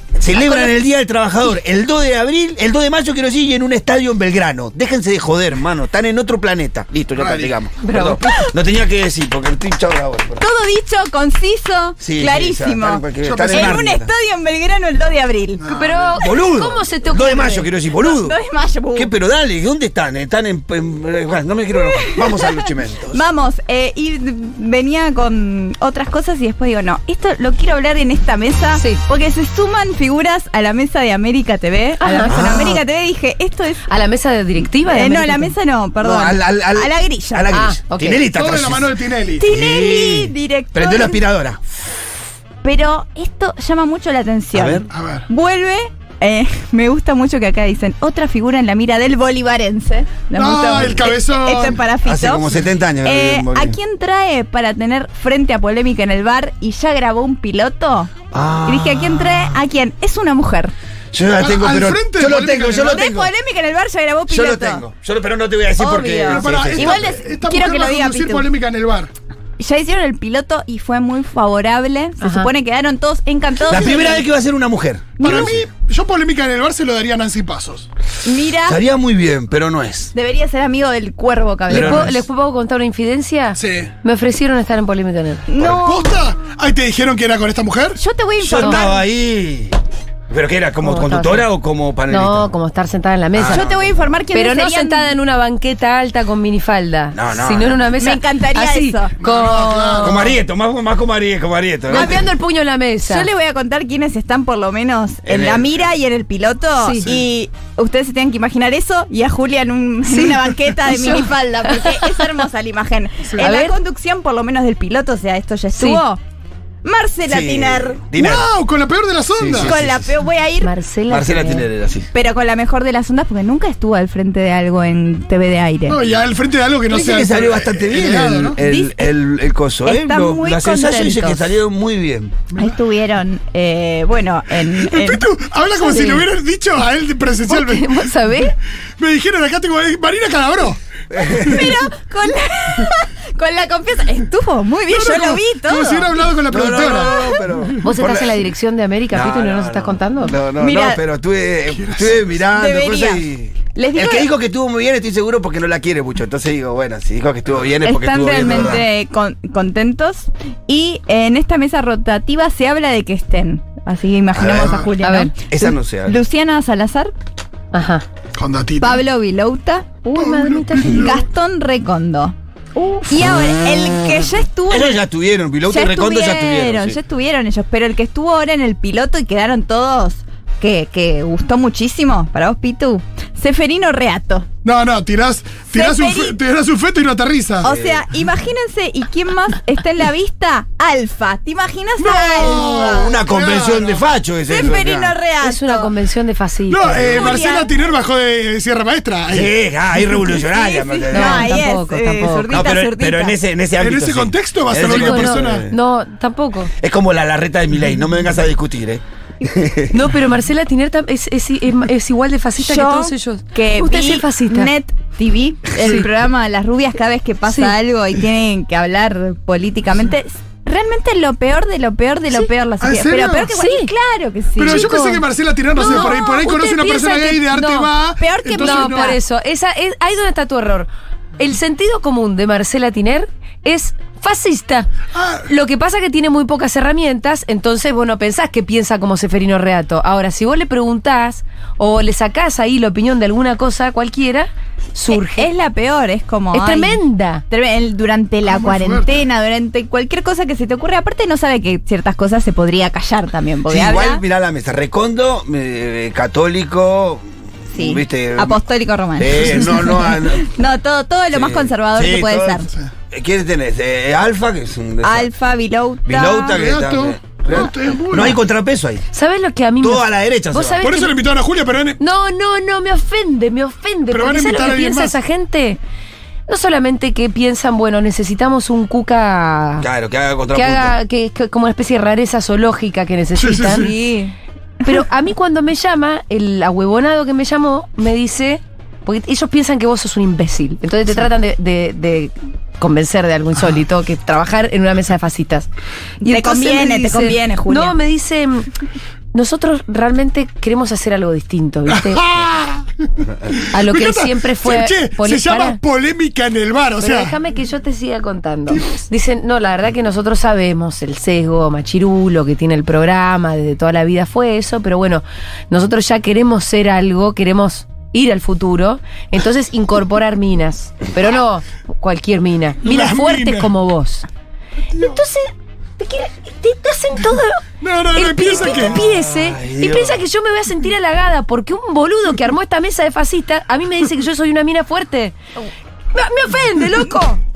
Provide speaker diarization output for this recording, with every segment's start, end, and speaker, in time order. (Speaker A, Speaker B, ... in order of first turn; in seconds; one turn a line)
Speaker A: 0.2-10.4
Speaker B: 7.2-7.6
Speaker C: 7.8-8.4
Speaker D: 10.4-15.6
Speaker A: 12.0-14.1
Speaker B: 13.2-13.8
Speaker B: 15.6-16.2
Speaker C: 15.7-17.7
Speaker A: 16.1-18.4
Speaker D: 17.9-19.1
Speaker A: 18.9-23.2
Speaker D: 21.7-33.9
Speaker C: 28.7-29.0
Speaker C: 32.0-32.8
Speaker A: 32.2-32.8
Speaker C: 33.9-35.5
Speaker D: 34.8-37.5
Speaker A: 36.0-38.9
Speaker C: 37.5-38.2
Speaker B: 38.3-39.5
Speaker D: 39.4-41.2
Speaker A: 39.5-41.6
Speaker D: 42.6-52.5
Speaker A: 44.5-44.9
Speaker B: 44.9-45.2
Speaker B: 50.3-51.8
Speaker A: 52.0-53.8
Speaker D: 53.0-58.1
Speaker A: 58.3-59.5
Speaker D: 58.6-60.7
Speaker A: 61.1-63.3
Speaker B: 61.4-63.0
Speaker D: 62.8-64.8
Speaker A: 64.3-67.1
Speaker D: 65.8-68.5
Speaker B: 66.2-69.1
Speaker D: 69.6-74.2
Speaker C: 72.2-72.5
Speaker A: 73.7-75.7
Speaker B: 75.2-77.9
Speaker D: 75.2-75.5
Speaker D: 78.2-78.8
Speaker A: 78.6-80.1
Speaker D: 80.1-82.2
Speaker A: 81.7-82.2
Speaker C: 81.7-85.4
Speaker B: 83.5-83.9
Speaker D: 85.5-86.2
Speaker B: 85.8-88.0
Speaker D: 88.0-89.0
Speaker A: 88.4-89.8
Speaker C: 88.6-88.9
Speaker A: 90.3-92.5
Speaker C: 90.8-91.5
Speaker C: 92.1-93.7
Speaker A: 93.3-94.1
Speaker D: 93.5-95.1
Speaker C: 94.3-99.0
Speaker A: 97.1-97.8
Speaker D: 98.0-100.4
Speaker B: 99.2-100.3
Speaker A: 100.0-102.3
Speaker D: 101.9-102.3
Speaker C: 101.9-103.3
Speaker D: 103.0-116.2
Speaker A: 105.2-105.8
Speaker C: 106.8-107.1
Speaker C: 110.9-111.9
Speaker C: 113.4-113.8
Speaker C: 115.7-116.0
Speaker D: 116.8-118.0
Speaker A: 117.3-118.5
Speaker B: 118.2-119.8
Speaker A: 119.3-120.1
Speaker D: 119.6-120.7
Speaker C: 120.6-121.7
Speaker A: 121.1-122.1
Speaker D: 122.1-126.0
Speaker B: 125.9-128.6
Speaker A: 126.9-132.3
Speaker D: 128.6-129.1
Speaker D: 129.8-131.5
Speaker D: 132.5-135.3
Speaker B: 134.7-141.7
Speaker C: 135.8-136.3
Speaker C: 137.5-138.5
Speaker A: 141.1-141.7
Speaker D: 141.3-146.2
Speaker B: 144.9-147.8
Speaker A: 146.5-148.4
Speaker D: 146.9-147.4
Speaker C: 147.8-150.4
Speaker A: 149.1-158.9
Speaker D: 150.6-151.0
Speaker B: 151.7-152.3
Speaker D: 152.5-154.3
Speaker D: 157.8-167.1
Speaker A: 164.3-164.9
Speaker C: 165.0-165.3
Speaker A: 165.5-166.2
Speaker C: 167.7-168.0
Speaker B: 168.3-169.0
Speaker D: 168.8-172.3
Speaker C: 170.1-171.2
Speaker B: 170.2-171.2
Speaker C: 172.8-173.2
Speaker D: 173.0-175.0
Speaker A: 174.7-177.0
Speaker D: 175.7-184.5
Speaker B: 184.6-187.7
Speaker D: 185.7-186.4
Speaker D: 187.6-193.2
Speaker A: 187.6-188.1
Speaker B: 192.0-194.0
Speaker A: 192.9-195.2
Speaker D: 194.5-195.9
Speaker C: 195.4-197.3
Speaker B: 196.7-199.5
Speaker D: 196.9-197.7
Speaker A: 199.3-201.6
Speaker D: 200.3-203.3
Speaker C: 201.1-202.6
Speaker A: 202.5-205.8
Speaker B: 203.8-205.7
Speaker C: 204.8-206.7
Speaker A: 206.8-210.1
Speaker C: 209.9-214.7
Speaker D: 212.6-227.4
Speaker C: 217.5-217.7
Speaker B: 222.8-223.5
Speaker C: 223.5-223.9
Speaker B: 224.6-229.1
Speaker C: 224.7-225.2
Speaker C: 225.8-227.9
Speaker D: 228.2-229.2
Speaker C: 228.6-234.9
Speaker B: 235.1-235.5
Speaker C: 235.5-245.5
Speaker D: 245.1-254.2
Speaker C: 246.5-247.4
Speaker B: 248.4-249.2
Speaker A: 253.7-258.6
Speaker D: 257.7-262.7
Speaker A: 259.2-260.4
Speaker B: 259.3-260.0
Speaker A: 261.3-265.3
Speaker D: 265.0-266.6
Speaker A: 266.1-269.0
Speaker B: 266.5-268.4
Speaker C: 269.1-271.1
Speaker A: 269.8-270.9
Speaker B: 270.8-272.0
Speaker C: 272.0-275.8
Speaker B: 274.1-275.2
Speaker C: 276.5-279.9
Speaker A: 279.8-280.9
Speaker C: 280.5-283.9
Speaker B: 283.3-283.9
Speaker D: 283.7-284.4
Speaker C: 284.8-295.7
Speaker C: 296.2-298.7
Speaker D: 296.2-298.0
Speaker C: 299.3-302.2
Speaker B: 301.9-307.4
Speaker C: 303.7-305.8
Speaker C: 307.0-324.3
Speaker B: 322.8-323.7
Speaker C: 324.9-325.5
Speaker C: 326.0-335.3
Speaker B: 327.8-329.0
Speaker A: 328.4-330.2
Speaker C: 336.1-337.4